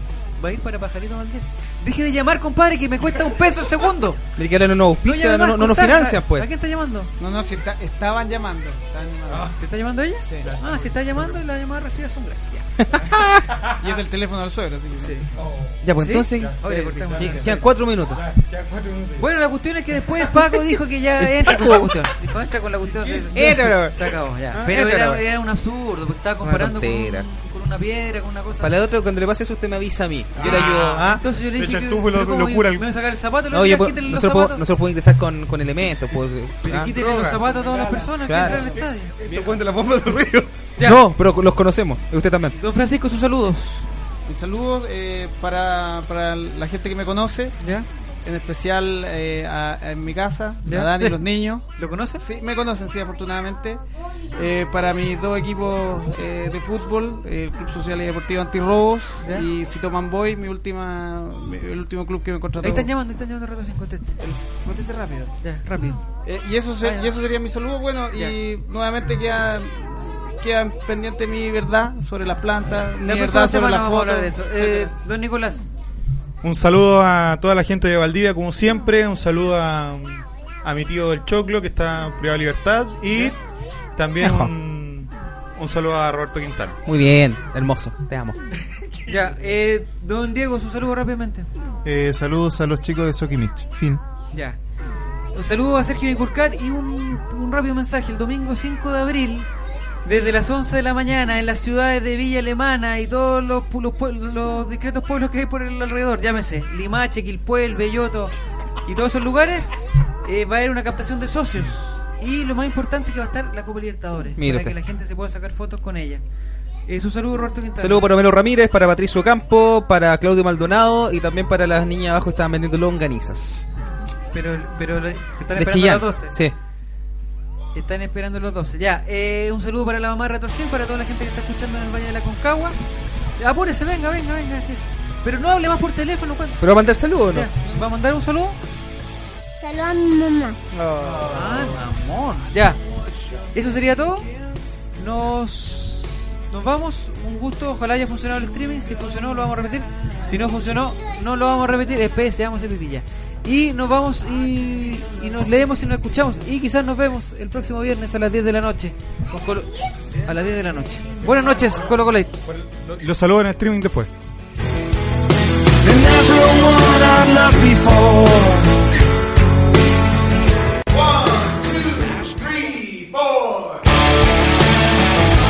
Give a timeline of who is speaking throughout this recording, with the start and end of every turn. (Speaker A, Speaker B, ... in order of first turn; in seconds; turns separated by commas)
Speaker A: 0.4-4.3, Speaker B: 4.4-6.5, Speaker A: 5.0-7.1, Speaker C: 7.2-9.5, Speaker D: 9.3-9.6, Speaker A: 9.6-12.8, Speaker C: 10.3-10.5, Speaker D: 10.4-11.4, Speaker B: 12.8-13.4, Speaker D: 13.0-13.8, Speaker C: 13.8-15.2, Speaker A: 15.0-15.3, Speaker D: 15.4-15.8, Speaker B: 15.8-16.6, Speaker A: 16.0-17.7, Speaker D: 16.4-17.5, Speaker B: 17.2-18.2, Speaker D: 18.1-19.3, Speaker A: 19.2-28.7, Speaker B: 21.2-21.9, Speaker B: 23.3-25.2, Speaker B: 26.4-27.3, Speaker B: 28.6-31.2, Speaker D: 30.4-32.9, Speaker A: 30.4-34.6, Speaker B: 33.5-36.9, Speaker A: 36.6-39.1, Speaker D: 36.9-37.7, Speaker C: 37.5-39.6, Speaker B: 38.2-38.6, Speaker D: 39.2-40.5, Speaker A: 40.8-41.0, Speaker B: 40.8-42.6, Speaker A: 42.6-43.9, Speaker C: 44.3-47.6, Speaker A: 47.6-47.9, Speaker C: 48.2-51.7, Speaker A: 50.6-52.2, Speaker C: 52.2-53.8, Speaker C: 54.3-62.9, Speaker A: 59.2-59.5, Speaker A: 62.6-64.2, Speaker C: 64.2-65.4, Speaker A: 65.4-66.1, Speaker C: 66.2-74.9, Speaker A: 66.8-67.1, Speaker A: 73.0-75.7, Speaker D: 76.4-83.4, Speaker D: 84.0-86.8, Speaker B: 84.2-84.5, Speaker B: 86.9-88.4, Speaker A: 89.1-91.5, Speaker E: 91.8-94.0, Speaker A: 94.3-94.6, Speaker A: 95.3-99.5, Speaker A: 100.0-108.3, Speaker A: 108.9-116.2, Speaker B: 114.4-114.8, Speaker A: 116.9-118.1, Speaker B: 117.8-123.7, Speaker A: 124.3-126.4, Speaker B: 125.6-126.5, Speaker A: 127.8-132.8, Speaker A: 133.4-136.7, Speaker B: 136.6-137.5, Speaker A: 137.3-138.6, Speaker F: 139.6-140.6, Speaker B: 140.7-141.6, Speaker A: 141.3-142.8, Speaker A: 143.5-144.3, Speaker A: 145.0-162.3, Speaker F: 150.9-151.9, Speaker D: 161.3-161.8, Speaker D: 162.5-164.1, Speaker B: 165.8-168.6, Speaker D: 171.1-173.5